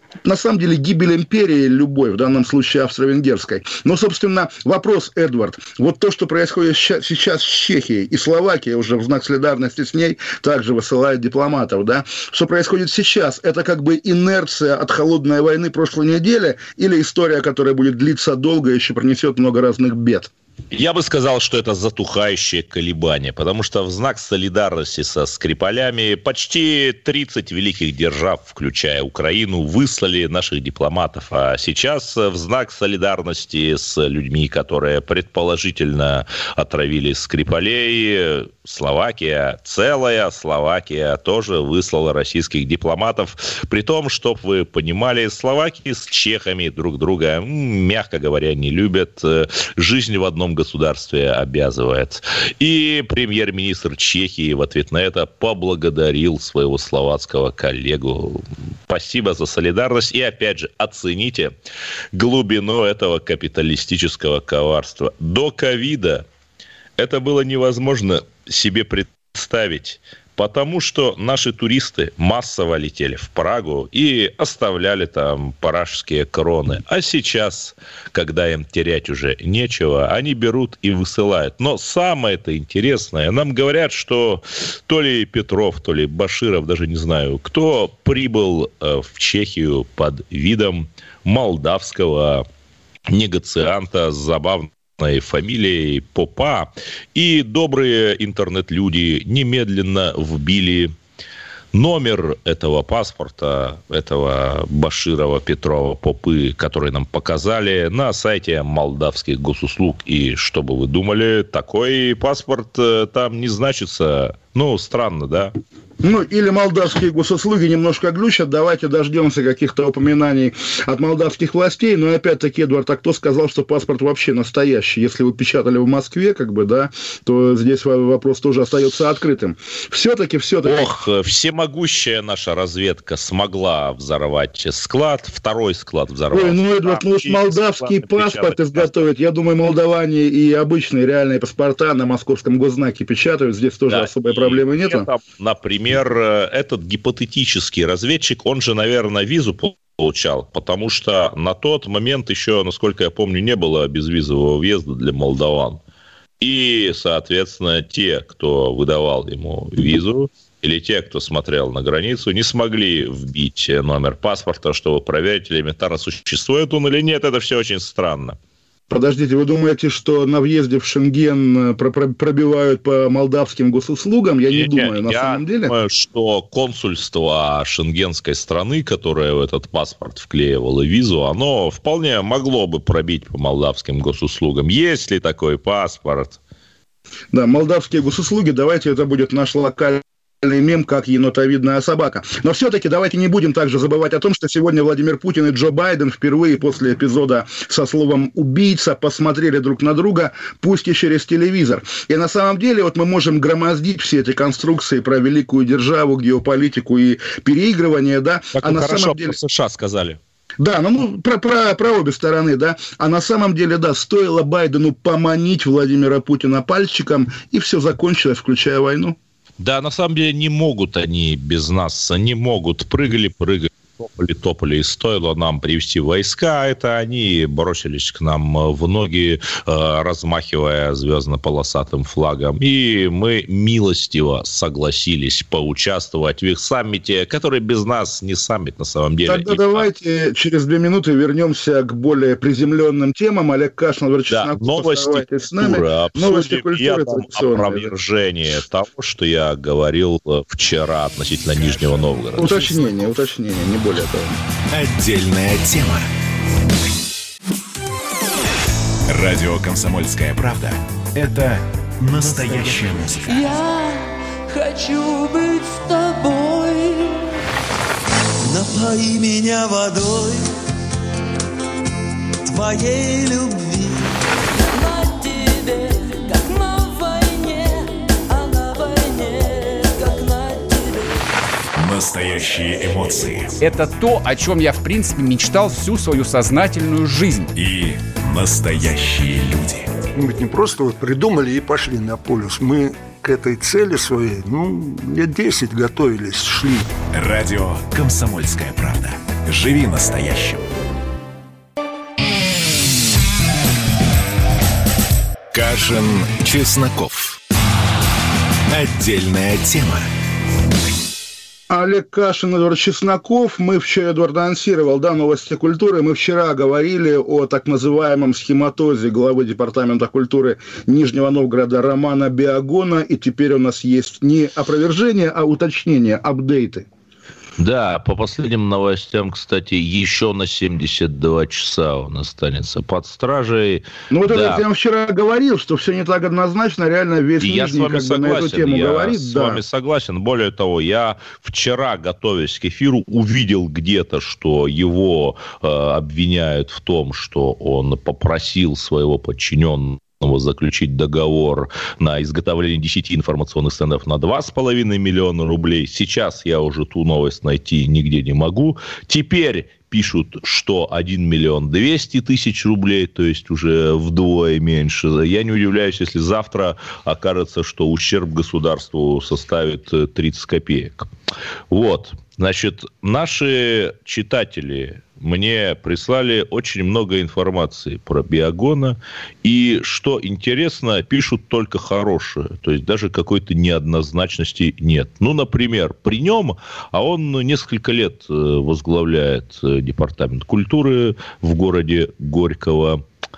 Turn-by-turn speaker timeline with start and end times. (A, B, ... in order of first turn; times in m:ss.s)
0:00.2-0:20.3 A
0:20.7-1:01.5 B
1:02.1-1:06.2 B
1:07.0-1:32.4 B
1:33.1-1:40.9 B
1:41.7-1:55.5 B
1:56.0-2:10.9 A
2:10.7-2:19.0 B
2:16.3-2:25.1 A
2:23.9-2:35.8 B
2:36.4-2:48.4 B
2:48.9-2:55.7 A
2:54.5-3:06.4 B
3:07.3-3:29.4 A
3:28.6-3:30.2 B
3:30.6-3:39.2 A
3:39.6-3:59.9 B
3:59.3-4:07.9 A
4:04.3-4:12.8 B
4:12.4-4:14.4 A
4:14.7-4:16.1 C
4:19.1-4:23.5 C
4:22.3-4:27.3 D
4:28.4-4:30.5 D
4:32.5-4:34.1 D
4:34.7-4:41.3 D
4:41.8-4:43.6 C
4:43.6-4:47.5 E
4:47.6-4:49.9 C
4:50.2-4:57.0 F
4:57.1-5:00.7 C
5:05.5-5:07.4 C
5:08.7-5:10.1 C
5:11.7-5:26.9 A
5:27.6-5:34.6 B
5:34.1-5:39.6 A
5:37.4-6:11.1 B
6:11.7-6:33.0 B